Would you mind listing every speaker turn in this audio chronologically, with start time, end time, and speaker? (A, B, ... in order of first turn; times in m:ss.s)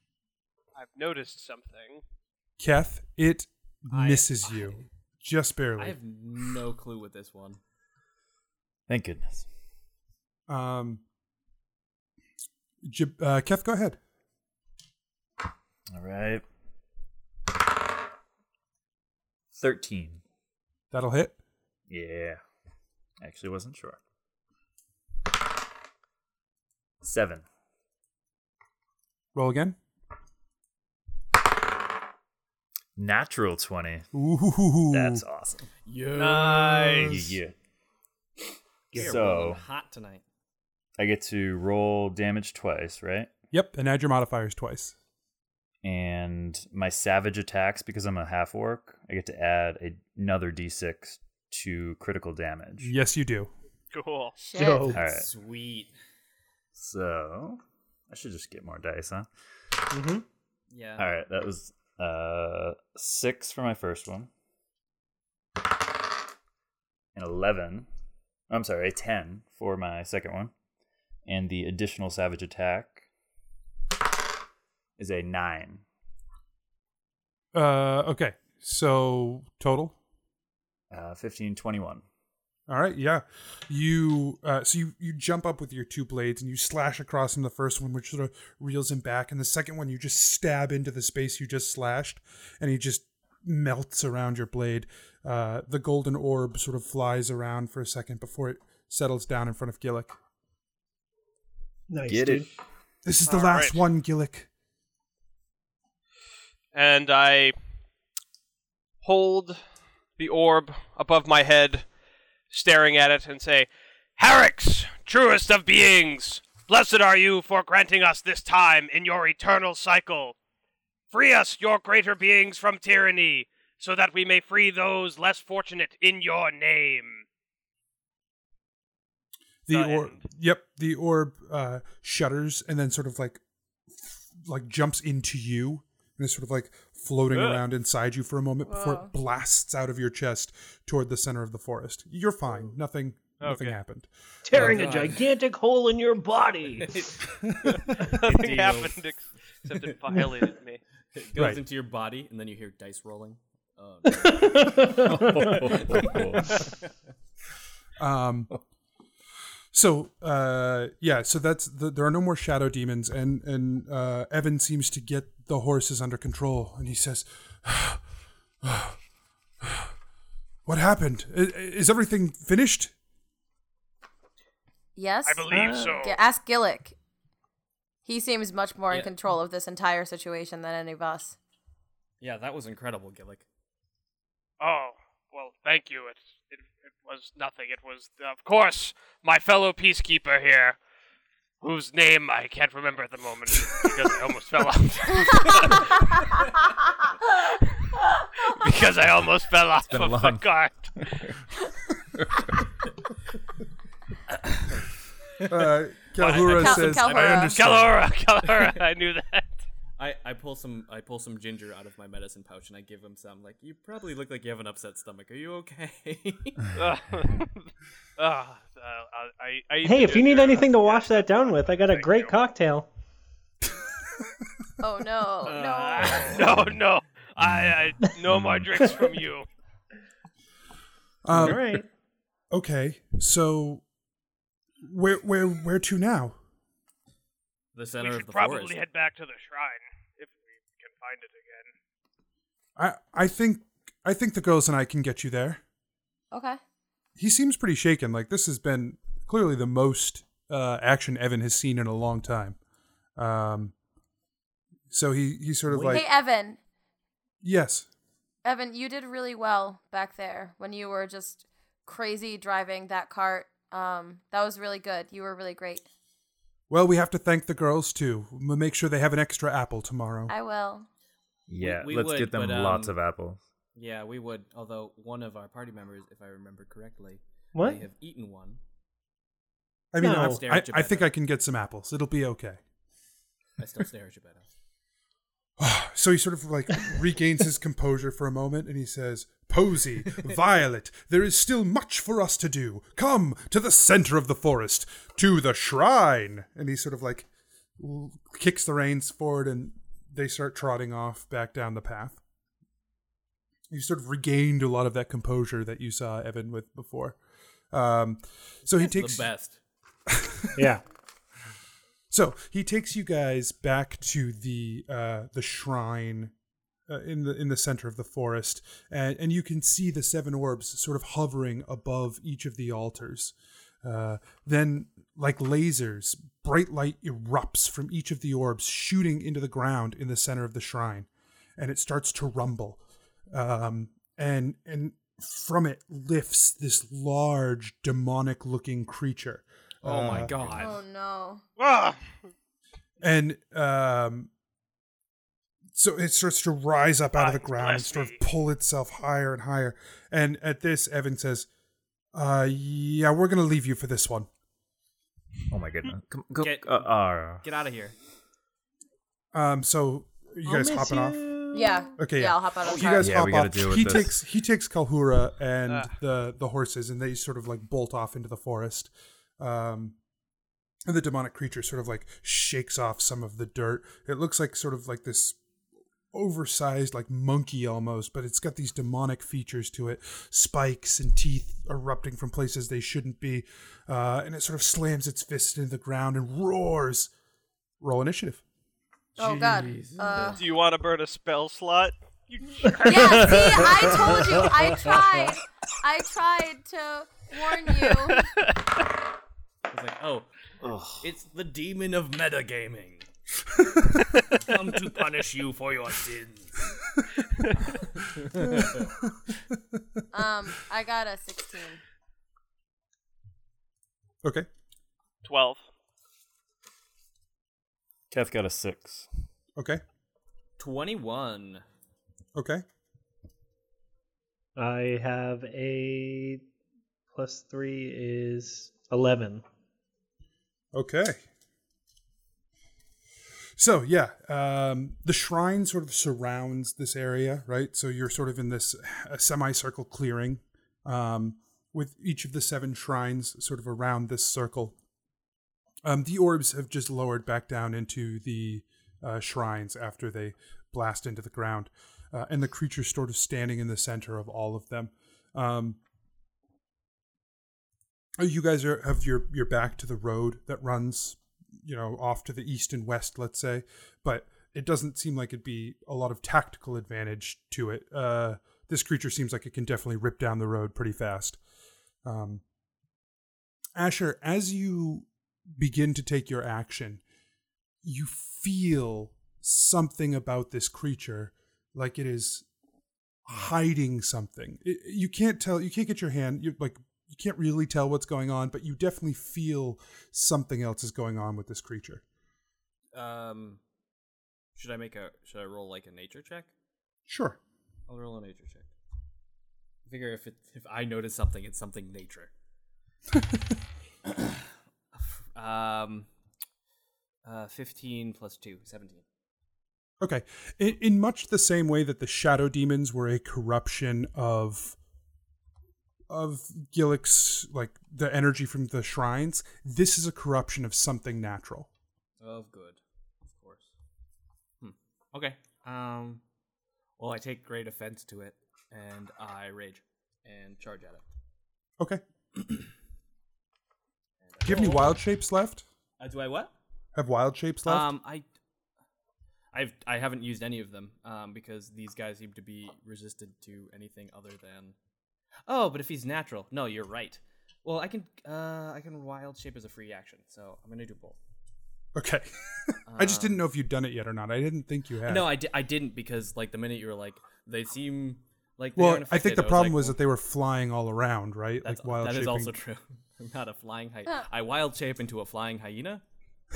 0:00.8-0:02.0 A
0:02.6-0:06.0 B
0:03.9-0:04.8 C
0:05.8-0:07.6 C
0:08.9-0:09.5 D
0:10.5-0:11.0 B
0:12.8-0:14.0 B
0:15.9-0:16.4 D
0:19.5-0:20.2 D
0:20.9-0:21.4 B
0:21.9-0:22.4 D
0:23.2-0:24.0 D
0:27.0-0:27.4 D
0:29.3-0:29.8 B
0:33.0-0:34.1 D
0:34.1-0:35.2 B
0:34.9-0:35.6 D
0:35.8-0:37.4 C
0:36.2-0:37.2 A
0:37.0-0:37.5 D
0:38.9-0:39.6 D
0:38.9-0:40.2 C
0:41.0-0:43.3 D
0:43.5-0:44.9 B
0:45.8-0:52.9 D
0:52.8-0:53.5 B
0:53.9-0:54.3 A
0:54.4-0:54.9 E
0:54.5-0:55.0 F
0:54.9-0:55.3 D
0:55.0-0:55.9 C
0:56.7-0:59.3 D
0:59.9-1:00.2 F
1:00.7-1:01.1 C
1:01.0-1:04.3 D
1:07.1-1:07.9 D
1:08.5-1:10.5 D
1:11.2-1:13.0 D
1:15.0-1:15.8 D
1:17.5-1:20.0 B
1:20.9-1:22.0 D
1:22.7-1:40.1 B
1:41.9-1:42.5 F
1:42.1-1:42.5 D
1:43.0-1:44.5 B
1:43.3-1:43.8 A
1:46.7-1:47.5 A
1:49.0-1:49.6 A
1:50.2-1:51.8 A
1:52.5-2:00.4 A
2:01.1-2:07.2 A
2:09.7-2:13.4 B
2:09.7-2:10.2 A
2:14.0-2:24.1 B
2:17.3-2:17.6 A
2:18.6-2:19.1 E
2:23.4-2:23.8 A
2:24.4-2:27.0 F
2:24.5-2:25.2 C
2:26.8-2:29.0 C
2:28.0-2:30.8 A
2:29.7-2:30.3 C
2:31.1-2:36.7 C
2:31.3-2:31.6 B
2:34.1-2:35.5 F
2:34.9-2:36.6 D
2:38.0-2:38.5 B
2:39.7-2:48.0 B
2:48.6-2:49.0 B
2:49.6-2:49.9 B
2:50.6-2:52.9 B
2:55.0-2:57.0 E
2:55.2-2:56.2 A
2:55.5-2:55.9 F
2:58.0-3:01.4 E
3:02.2-3:03.4 C
3:04.6-3:10.8 A
3:11.6-3:16.2 A
3:18.4-3:21.2 A
3:19.9-3:20.4 D
3:21.0-3:21.2 D
3:25.4-3:28.0 B
3:26.2-3:29.6 A
3:26.3-3:27.6 E
3:26.4-3:26.9 C
3:30.0-3:36.7 C
3:36.7-3:37.6 A
3:38.2-3:42.3 A
3:39.8-3:42.9 F
3:44.8-3:46.4 E
3:45.4-3:46.4 C
3:45.4-3:49.4 A
3:47.4-3:48.7 D
3:51.2-3:51.8 B
3:51.3-3:51.9 F
3:52.5-3:53.8 B
3:54.8-3:56.4 B
3:57.7-3:58.8 C
3:58.0-4:01.7 A
4:02.8-4:05.6 B
4:06.3-4:06.6 E
4:07.2-4:12.6 B
4:13.2-4:13.7 B
4:14.9-4:16.0 B
4:15.7-4:16.0 C
4:15.8-4:16.6 E
4:17.4-4:17.9 B
4:18.4-4:25.8 E
4:26.7-4:30.3 B
4:30.3-4:30.9 E
4:31.5-4:33.4 D
4:31.6-4:32.9 C
4:33.7-4:38.6 C
4:37.5-4:37.8 F
4:39.9-4:42.6 B
4:40.0-4:40.4 F
4:40.1-4:41.1 C
4:43.6-4:44.4 C
4:45.6-5:02.2 B
5:03.7-5:07.2 B
5:07.7-5:09.2 B
5:08.7-5:09.6 C
5:10.1-5:10.6 B
5:10.6-5:10.8 F
5:12.1-5:16.3 B
5:16.9-5:32.8 B
5:33.3-5:40.5 B
5:39.8-5:40.8 C
5:40.6-5:41.4 E
5:41.6-5:42.0 A
5:43.0-5:44.3 B
5:45.7-5:51.5 B
5:47.2-5:48.2 A
5:52.1-5:54.3 B
5:55.5-5:57.4 D
5:56.4-5:57.9 C
5:59.3-6:01.3 B
6:00.4-6:01.9 F
6:01.5-6:03.2 E
6:02.0-6:10.0 B
6:02.6-6:03.0 C
6:03.0-6:04.1 D
6:10.8-6:15.4 B
6:16.1-6:27.1 B
6:27.8-6:28.4 B
6:29.2-6:30.4 C
6:29.2-6:30.4 E
6:30.3-6:33.8 A
6:32.6-6:34.6 F
6:32.8-6:38.3 E
6:37.8-6:38.5 A
6:39.7-6:40.3 C
6:40.6-6:41.0 D
6:41.0-6:43.0 C
6:44.3-6:46.7 C
6:47.3-6:47.8 A
6:48.0-6:48.9 C
6:48.4-6:50.0 B
6:50.1-6:51.8 E
6:54.2-6:54.5 B
6:55.2-6:55.6 A
6:58.1-6:59.1 D
6:59.6-6:59.8 B
7:00.6-7:01.6 C
7:02.3-7:02.6 B
7:04.6-7:06.4 F
7:07.1-7:09.4 F
7:10.7-7:11.2 B
7:13.6-7:24.8 B
7:25.8-7:35.8 B
7:38.2-7:51.4 B
7:52.0-7:52.4 B
7:53.8-7:57.0 B
7:57.8-8:02.4 B
8:03.2-8:12.0 B
8:12.9-8:13.6 C
8:14.5-8:16.5 C
8:17.1-8:17.4 B
8:17.9-8:18.7 C
8:19.9-8:22.3 C
8:23.1-8:23.4 B
8:24.9-8:26.1 C
8:27.2-8:29.0 C
8:30.0-8:34.8 B
8:36.1-8:41.7 B
8:42.2-8:43.7 C
8:44.6-8:46.2 C
8:47.0-8:51.0 C
8:54.2-8:55.0 C
8:54.4-8:55.6 B
8:56.0-8:56.5 C
8:57.0-8:57.9 B
8:57.6-8:58.2 C
8:59.5-9:04.7 C
9:05.5-9:11.2 C
9:11.9-9:15.3 B
9:12.9-9:13.4 C
9:15.0-9:20.0 C
9:18.8-9:22.5 B
9:21.6-9:26.0 C